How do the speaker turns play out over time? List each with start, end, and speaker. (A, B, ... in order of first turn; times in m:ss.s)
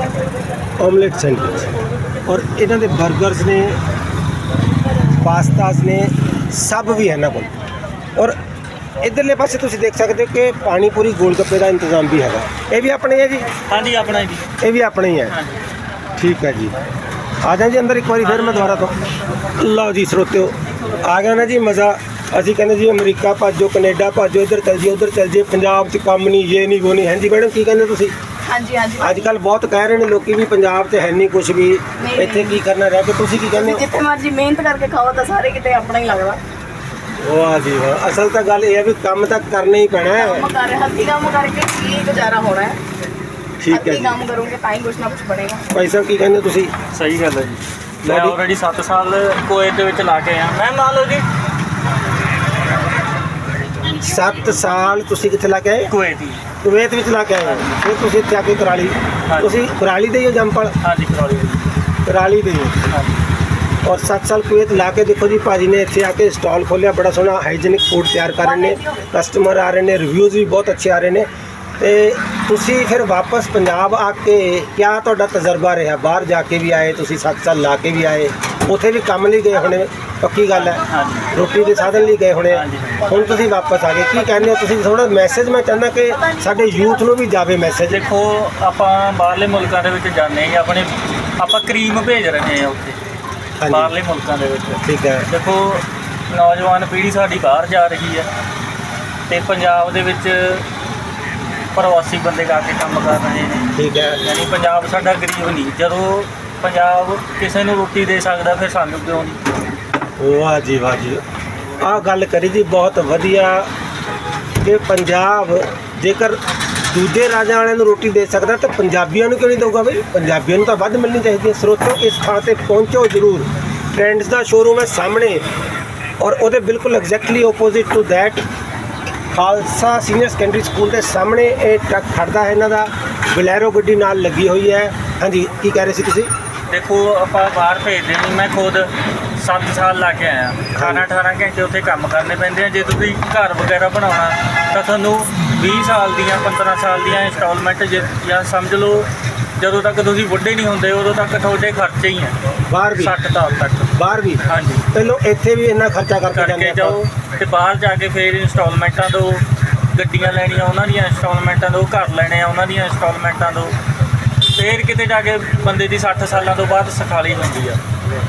0:00.8-0:01.7 A
0:02.2-0:03.8 A
0:05.2-0:07.5 A
0:09.0-0:13.5 A
0:13.7-0:14.5 B
0:14.6-0:15.4 A
0:15.3-0:15.6 B
0:16.2-0:16.7 A
0:17.4-0:19.0 A
0:18.2-0:18.9 B
0:19.6-0:28.1 A
0:28.5-0:29.2 C
0:29.0-0:33.8 A
0:32.0-0:32.6 C
0:33.5-0:36.4 C
0:37.2-0:40.5 A
0:40.1-0:42.8 C
0:43.6-0:44.2 A
0:43.7-0:45.7 C
0:45.7-0:46.7 A
0:46.9-0:51.3 B
0:48.0-0:48.4 A
0:53.9-0:55.9 A
0:55.9-0:56.4 B
0:56.6-1:00.8 A
0:57.4-0:57.7 B
0:59.3-0:59.7 B
1:00.8-1:01.8 B
1:02.0-1:02.9 A
1:02.9-1:03.2 B
1:03.8-1:11.3 A
1:08.4-1:09.1 C
1:11.8-1:28.1 A
1:20.8-1:21.3 B
1:22.5-1:23.0 B
1:26.2-1:27.1 C
1:27.8-1:33.0 B
1:33.6-1:33.9 A
1:33.7-1:38.3 B
1:34.8-1:35.3 A
1:39.3-1:40.6 B
1:41.7-1:49.7 B
1:43.7-1:44.2 A
1:50.2-1:51.2 A
1:51.8-1:53.7 A
1:54.6-2:05.4 A
2:06.2-2:08.4 A
2:09.3-2:16.3 A
2:16.7-2:32.4 B
2:20.7-2:21.0 A
2:32.7-2:33.1 A
2:32.9-2:34.9 B
2:33.9-2:37.0 A
2:36.3-2:43.8 B
2:44.5-2:47.8 B